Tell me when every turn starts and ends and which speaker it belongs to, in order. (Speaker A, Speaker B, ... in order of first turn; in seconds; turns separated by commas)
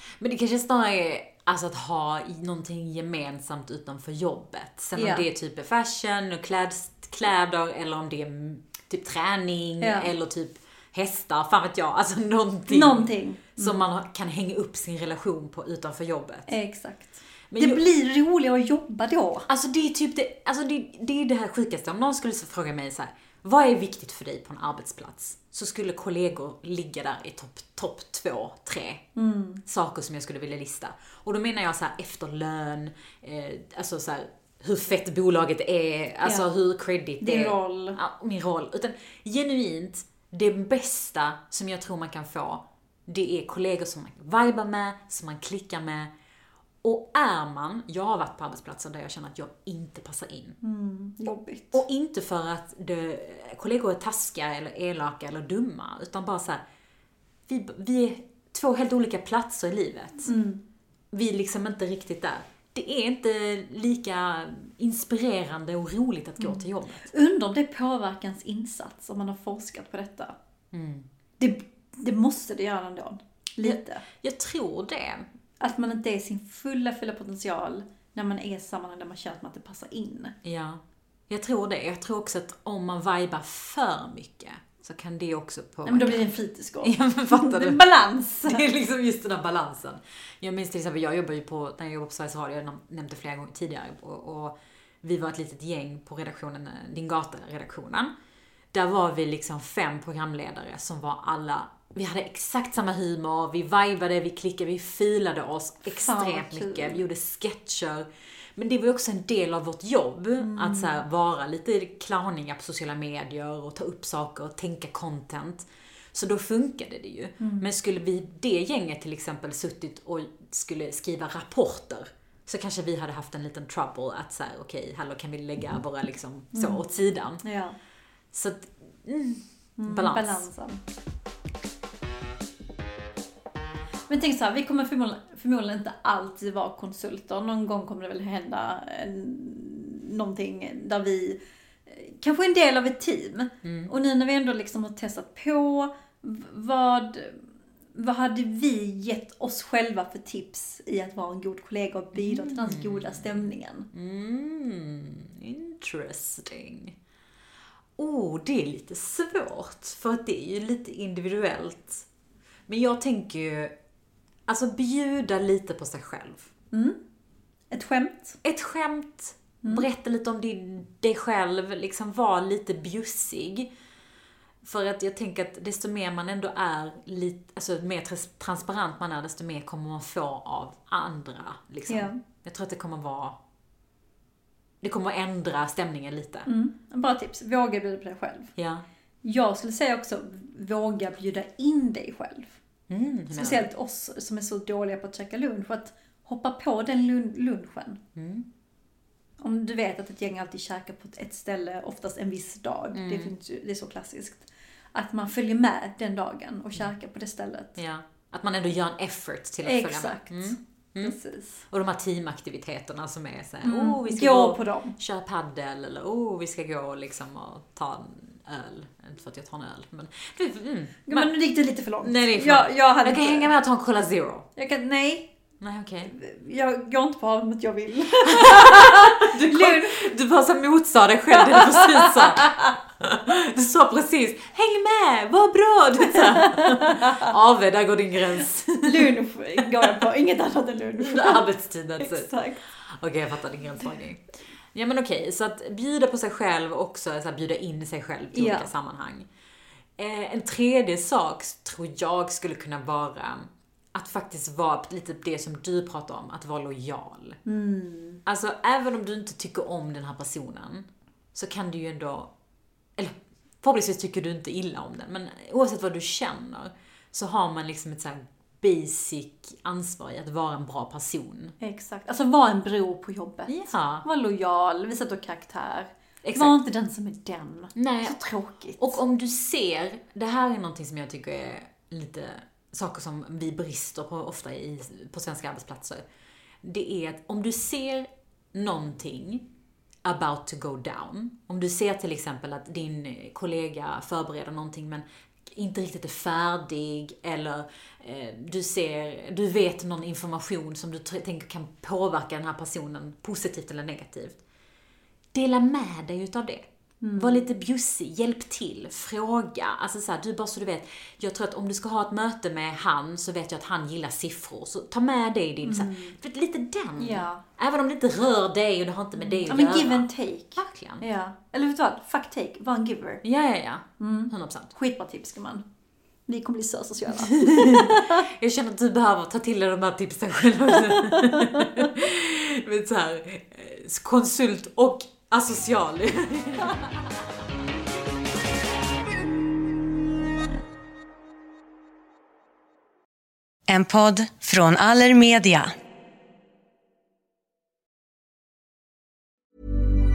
Speaker A: 0.2-16.5, Speaker B: 5.0-5.2, Speaker B: 9.8-10.1, Speaker B: 12.7-13.8, Speaker B: 16.5-19.5, Speaker A: 17.5-17.8, Speaker A: 19.5-29.0, Speaker B: 29.2-29.6, Speaker A: 29.7-46.1, Speaker B: 36.2-36.5, Speaker B: 37.2-38.0, Speaker A: 46.8-50.6, Speaker B: 50.6-51.8, Speaker A: 51.7-56.6, Speaker A: 57.5-60.3, Speaker B: 60.3-60.6, Speaker A: 61.1-67.1, Speaker B: 66.4-70.3, Speaker A: 70.7-71.1, Speaker B: 71.4-74.0, Speaker A: 73.6-75.3, Speaker B: 75.6-80.3, Speaker A: 80.4-86.3, Speaker B: 85.9-88.6, Speaker A: 86.8-87.8, Speaker A: 88.5-98.1, Speaker A: 98.7-127.4, Speaker B: 106.0-107.0, Speaker B: 110.4-111.0, Speaker B: 117.4-117.7, Speaker B: 126.5-126.8, Speaker B: 127.4-127.8, Speaker A: 128.3-130.5, Speaker B: 129.8-130.8, Speaker B: 134.1-153.9, Speaker A: 143.6-143.9, Speaker A: 152.2-157.0, Speaker A: 158.0-162.1, Speaker A: 162.7-163.7, Speaker A: 164.5-166.5, Speaker B: 166.7-167.0, Speaker B: 167.7-168.4, Speaker A: 168.4-173.7, Speaker A: 174.6-183.4, Speaker B: 181.9-182.2, Speaker A: 184.8-186.5, Speaker B: 186.5-188.5, Speaker A: 188.6-188.8, Speaker B: 189.2-192.6, Speaker A: 192.9-193.7, Speaker B: 193.3-198.0, Speaker A: 198.2-198.5, Speaker B: 199.4-207.8, Speaker A: 202.9-203.3, Speaker A: 207.8-211.2, Speaker B: 209.7-211.7, Speaker A: 211.7-221.3, Speaker B: 213.6-214.9, Speaker B: 221.1-223.5, Speaker A: 222.0-224.5, Speaker B: 224.6-225.3, Speaker A: 225.6-226.1, Speaker B: 226.1-230.1, Speaker A: 228.2-239.1, Speaker B: 231.3-232.7, Speaker B: 236.1-237.3, Speaker B: 238.8-241.4, Speaker A: 241.0-244.2, Speaker B: 242.0-242.6, Speaker A: 244.7-249.3, Speaker B: 248.3-248.7, Speaker A: 250.0-257.4, Speaker B: 257.5-258.2, Speaker A: 258.3-262.3, Speaker A: 263.0-271.6, Speaker B: 271.6-279.0, Speaker A: 273.5-274.1, Speaker A: 276.2-276.6, Speaker A: 277.8-278.2, Speaker A: 278.8-286.0, Speaker A: 286.6-289.5, Speaker A: 290.1-304.4, Speaker A: 305.3-306.6, Speaker B: 307.0-307.5, Speaker A: 307.2-321.0, Speaker B: 315.6-316.2, Speaker B: 317.0-317.4, Speaker B: 319.2-323.2, Speaker A: 323.2-324.7, Speaker B: 324.0-325.6, Speaker B: 326.3-328.2, Speaker A: 327.1-336.9, Speaker B: 330.9-331.9, Speaker C: 343.7-345.8